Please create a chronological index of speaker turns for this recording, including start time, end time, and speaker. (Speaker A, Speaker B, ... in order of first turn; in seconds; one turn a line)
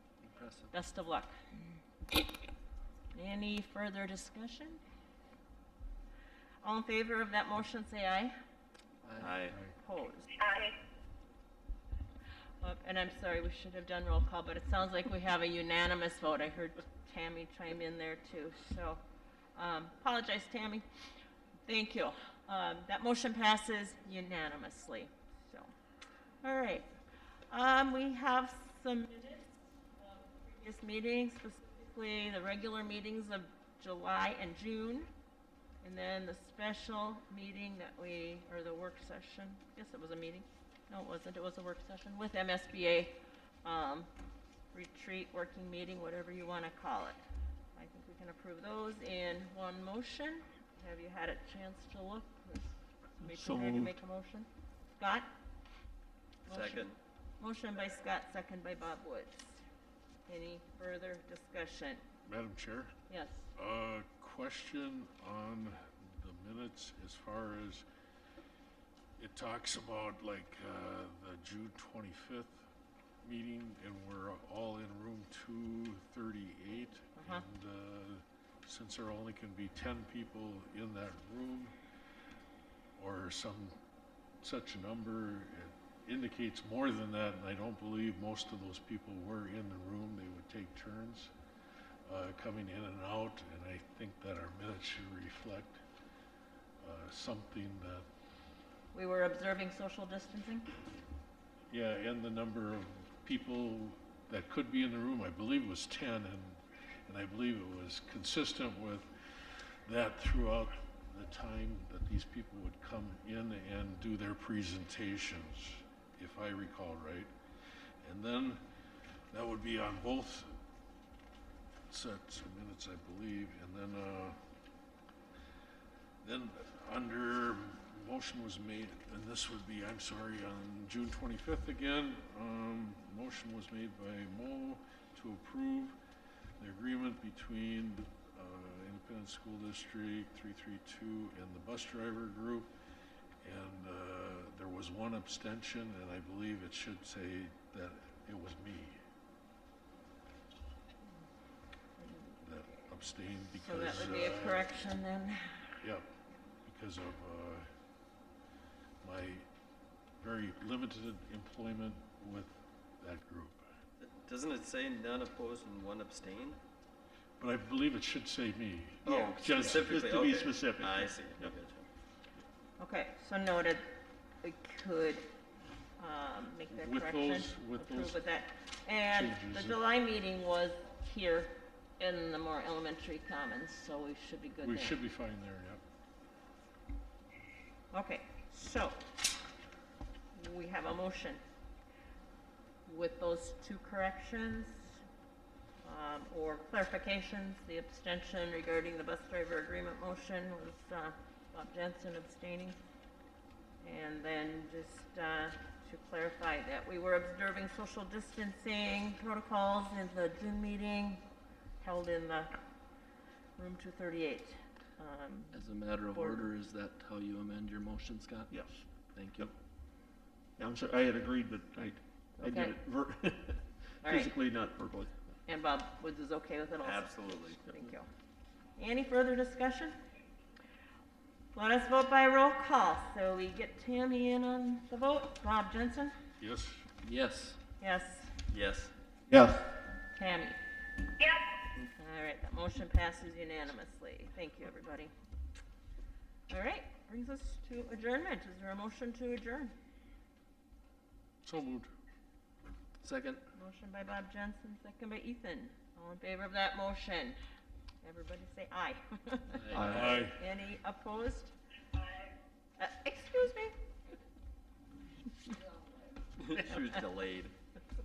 Speaker A: 0.2-0.7
Speaker B: 0.7-1.3
Speaker B: 3.1-4.8
Speaker B: 6.6-8.3
Speaker A: 9.0-9.4
Speaker C: 9.2-9.6
Speaker B: 9.6-10.4
Speaker B: 12.6-19.0
Speaker B: 19.6-20.9
Speaker B: 21.7-25.7
Speaker B: 26.4-26.9
Speaker B: 27.5-35.1
Speaker B: 35.8-44.1
Speaker B: 44.7-47.2
Speaker B: 47.8-55.3
Speaker D: 53.2-53.9
Speaker C: 56.5-57.0
Speaker B: 56.5-59.6
Speaker B: 60.3-62.0
Speaker E: 62.2-63.0
Speaker B: 63.1-63.5
Speaker E: 63.6-67.8
Speaker E: 69.2-72.7
Speaker E: 73.2-81.8
Speaker B: 77.2-77.5
Speaker E: 83.0-83.8
Speaker E: 84.4-91.3
Speaker E: 92.1-95.8
Speaker E: 96.8-98.0
Speaker B: 98.9-100.7
Speaker E: 101.7-109.1
Speaker E: 109.9-117.3
Speaker E: 118.0-118.6
Speaker E: 119.3-120.5
Speaker E: 121.9-124.4
Speaker E: 126.2-136.0
Speaker E: 136.6-142.7
Speaker E: 143.4-149.0
Speaker B: 152.0-152.4
Speaker E: 152.4-154.7
Speaker B: 153.6-155.8
Speaker E: 155.8-156.1
Speaker E: 156.7-157.7
Speaker E: 159.0-159.5
Speaker E: 160.2-163.7
Speaker C: 164.0-166.6
Speaker E: 167.4-170.1
Speaker D: 169.1-171.5
Speaker C: 169.1-171.9
Speaker B: 172.8-173.8
Speaker B: 174.4-175.3
Speaker B: 176.0-185.0
Speaker E: 176.7-178.2
Speaker E: 179.1-179.8
Speaker E: 184.6-185.8
Speaker B: 187.9-189.0
Speaker B: 190.3-191.4
Speaker B: 192.9-195.0
Speaker B: 195.8-202.8
Speaker B: 203.8-211.2
Speaker B: 211.8-212.5
Speaker B: 213.6-216.5
Speaker A: 215.5-218.5
Speaker D: 218.5-218.8
Speaker A: 219.1-219.5
Speaker D: 220.6-225.1
Speaker B: 222.4-222.8
Speaker B: 224.0-224.4
Speaker B: 225.5-228.1
Speaker C: 226.8-227.6
Speaker B: 228.8-229.9
Speaker B: 231.5-236.2
Speaker E: 236.4-236.9
Speaker A: 237.0-237.6
Speaker B: 237.8-238.4
Speaker C: 238.5-238.9
Speaker B: 240.1-240.6
Speaker B: 241.9-245.1
Speaker B: 246.5-249.7
Speaker E: 251.4-251.9
Speaker A: 253.0-253.4
Speaker B: 253.5-257.4
Speaker B: 258.0-261.5
Speaker A: 259.5-260.2
Speaker D: 259.8-260.1
Speaker E: 259.9-260.4
Speaker B: 262.8-263.8
Speaker C: 266.4-267.5